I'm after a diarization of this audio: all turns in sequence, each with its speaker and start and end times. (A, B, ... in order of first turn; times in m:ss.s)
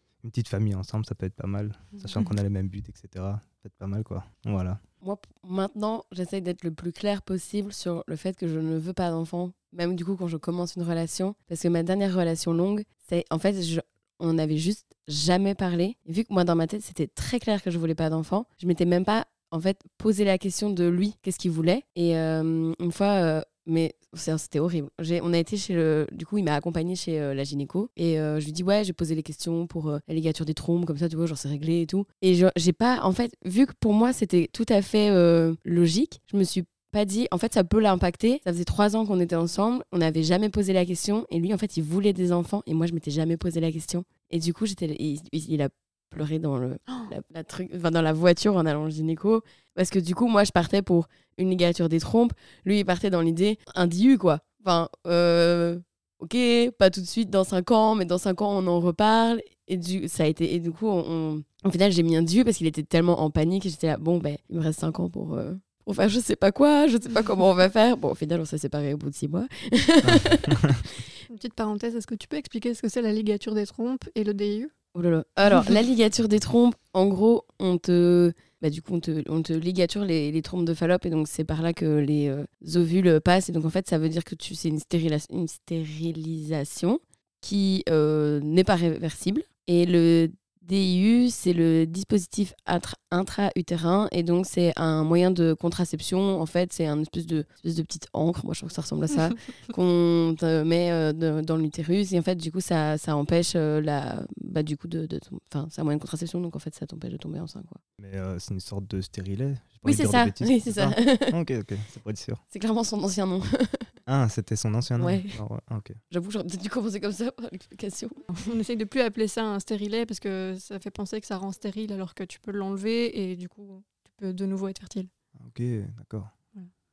0:00.2-0:04.8 A
0:05.0-1:10.6 B
1:10.0-1:10.8 A
1:11.3-1:14.7 C
1:14.9-1:47.8 B
1:48.0-1:52.4 A
1:49.8-1:51.4 B
1:52.5-1:53.9 B
1:54.0-1:56.0 A
1:55.0-1:55.4 B
1:56.1-1:58.2 B
1:58.4-2:05.1 C
2:05.4-2:06.3 A